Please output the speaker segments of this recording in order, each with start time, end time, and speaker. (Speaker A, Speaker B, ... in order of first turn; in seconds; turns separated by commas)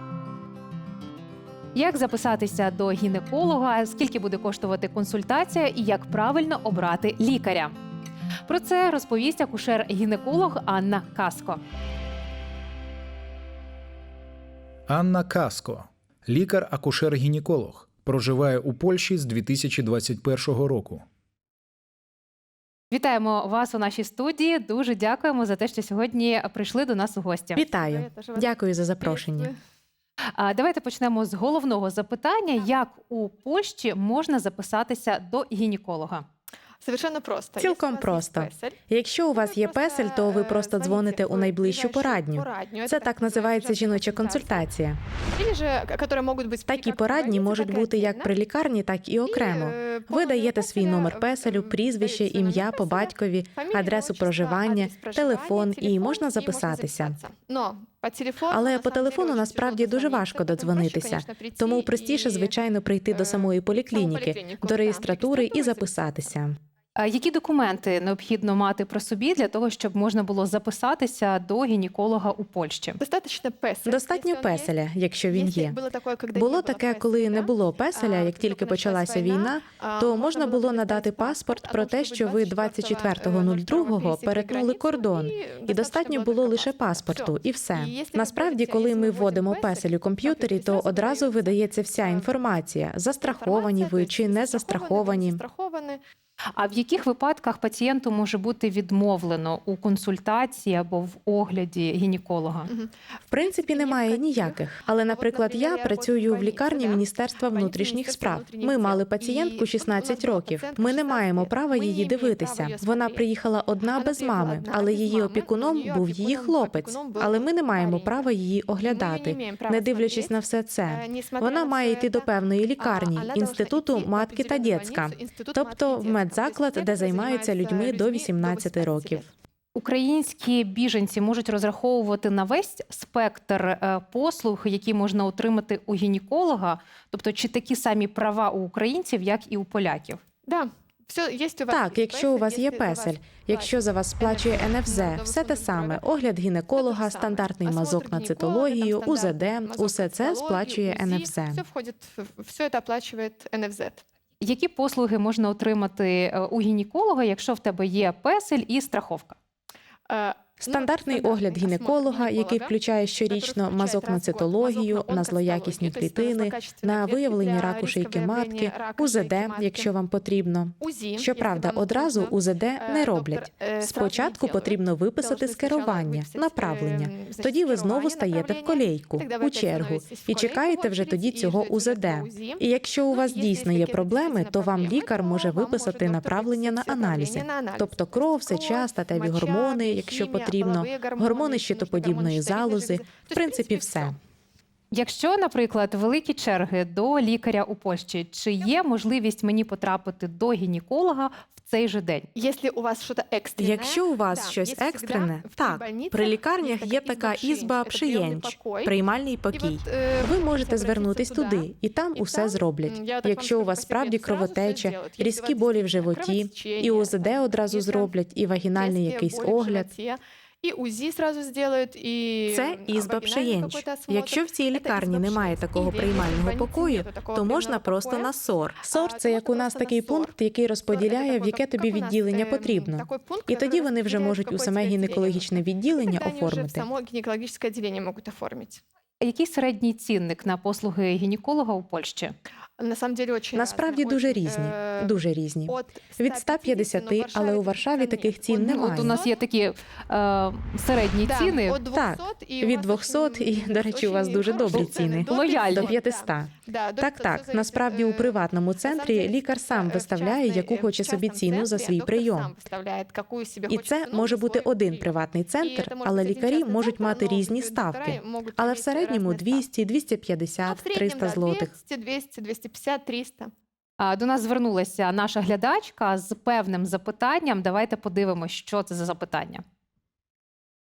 Speaker A: 1.7-7.8, Speaker A: 8.5-11.6, Speaker B: 14.9-21.1, Speaker A: 22.9-27.6, Speaker C: 27.6-29.5, Speaker D: 27.6-29.6, Speaker A: 30.3-36.2, Speaker D: 36.8-38.8, Speaker C: 37.6-45.0, Speaker D: 39.3-44.7, Speaker D: 45.3-48.3, Speaker C: 46.7-57.2, Speaker D: 49.2-62.5, Speaker C: 58.5-66.6, Speaker D: 63.1-65.9, Speaker A: 67.0-73.0, Speaker D: 73.0-74.8, Speaker C: 73.9-75.8, Speaker D: 75.3-92.3, Speaker C: 76.3-95.4, Speaker D: 93.2-96.0, Speaker A: 96.5-102.7, Speaker D: 102.7-113.2, Speaker C: 103.3-129.2, Speaker D: 113.9-118.3, Speaker D: 118.8-129.3, Speaker A: 129.8-140.2, Speaker D: 140.5-146.0, Speaker C: 141.7-151.6, Speaker D: 146.8-154.0, Speaker A: 154.4-159.4, Speaker D: 160.1-162.8, Speaker C: 160.6-194.2, Speaker D: 163.2-169.9, Speaker D: 170.8-194.2, Speaker A: 194.9-202.3, Speaker D: 202.3-208.9, Speaker C: 203.6-219.9, Speaker D: 209.5-218.1, Speaker D: 218.7-228.3, Speaker C: 222.5-236.8, Speaker D: 228.8-230.3, Speaker D: 230.9-238.8, Speaker A: 239.2-242.3, Speaker D: 242.8-245.2, Speaker C: 243.5-249.2, Speaker D: 245.7-249.4, Speaker A: 248.6-251.8, Speaker D: 251.2-269.6, Speaker C: 251.9-262.5, Speaker A: 255.2-255.9, Speaker C: 263.7-271.7, Speaker D: 270.6-273.5, Speaker A: 274.0-279.6